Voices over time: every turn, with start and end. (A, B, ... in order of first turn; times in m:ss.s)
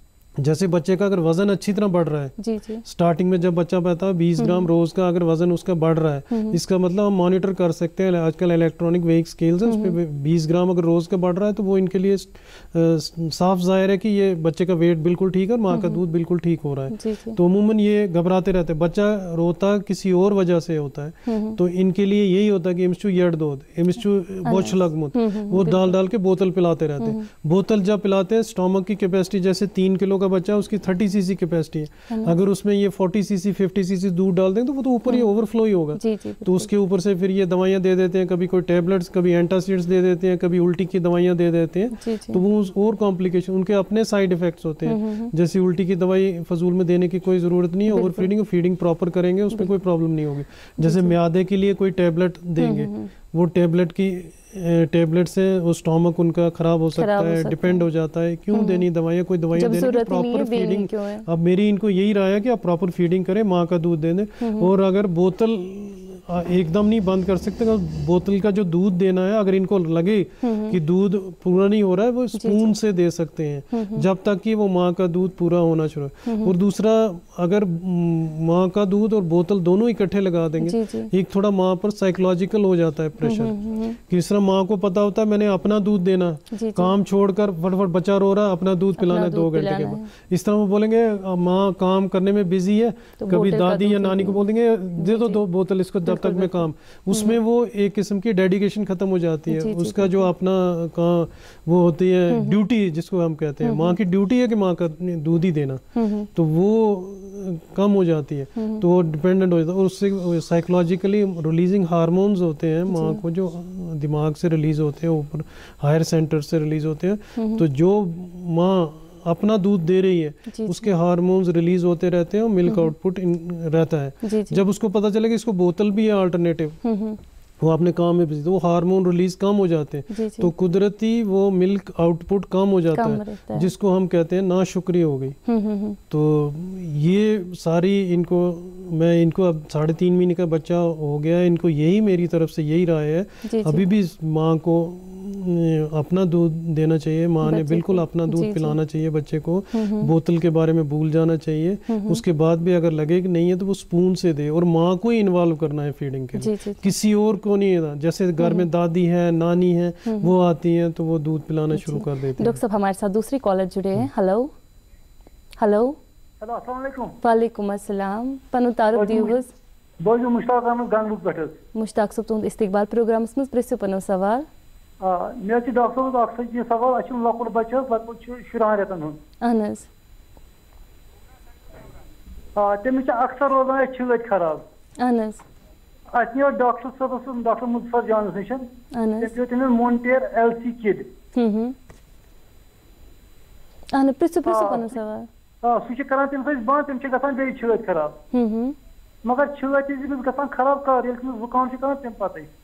0:00.4-1:45.8 A
0:02.4-0:02.8 B
0:04.4-0:04.7 B
0:06.3-0:06.6 B
0:09.6-0:10.0 B
0:15.7-0:16.0 B
0:16.9-0:17.4 B
0:21.3-0:21.6 B
0:24.4-0:26.0 B
0:27.0-0:27.2 B
0:32.1-0:32.3 B
0:36.0-0:36.7 B
0:41.9-0:42.4 B
0:44.9-0:45.3 B
0:47.9-0:48.3 B
0:49.5-0:49.8 B
0:50.8-0:51.2 B
0:52.6-0:53.1 B
0:57.0-0:57.8 B
0:58.5-0:58.9 B
0:59.6-1:01.2 B
1:04.4-1:04.7 B
1:10.4-1:10.8 B
1:12.4-1:12.7 B
1:13.7-1:14.0 B
1:16.2-1:16.5 B
1:20.6-1:21.1 B
1:23.2-1:24.0 B
1:26.5-1:26.9 B
1:29.0-1:30.1 B
1:33.2-1:34.4 B
1:35.0-1:35.4 B
1:36.0-1:37.4 B
1:39.5-1:40.3 B
1:42.3-1:42.6 B
1:43.6-1:44.0 B
1:46.0-1:46.3 B
1:46.3-2:06.8 A
1:48.6-1:48.8 B
1:52.9-1:53.2 B
1:57.4-1:57.6 B
2:00.5-2:00.9 B
2:02.6-2:02.9 B
2:04.2-2:04.6 B
2:06.8-2:07.2 B
2:07.6-2:15.4 A
2:10.1-2:10.5 B
2:12.9-2:13.7 B
2:15.5-2:16.0 B
2:16.1-2:42.6 A
2:23.4-2:23.9 B
2:27.4-2:28.8 B
2:29.7-2:30.1 B
2:31.9-2:32.2 B
2:36.4-2:36.9 B
2:38.4-2:38.7 B
2:40.0-2:40.3 B
2:41.7-2:44.5 B
2:45.6-2:46.0 B
2:46.4-2:47.1 C
2:47.2-2:49.5 B
2:48.9-2:49.4 C
2:50.0-2:51.6 C
2:51.7-2:54.5 B
2:55.0-2:59.2 C
2:59.4-2:59.9 B
3:02.6-3:04.6 C
3:05.0-3:05.4 B
3:06.1-3:08.7 C
3:08.9-3:09.3 B
3:09.2-3:11.1 C
3:11.3-3:11.7 B
3:13.9-3:15.3 B
3:14.4-3:15.0 C
3:15.6-3:18.2 C
3:18.3-3:18.8 B
3:19.2-3:22.5 C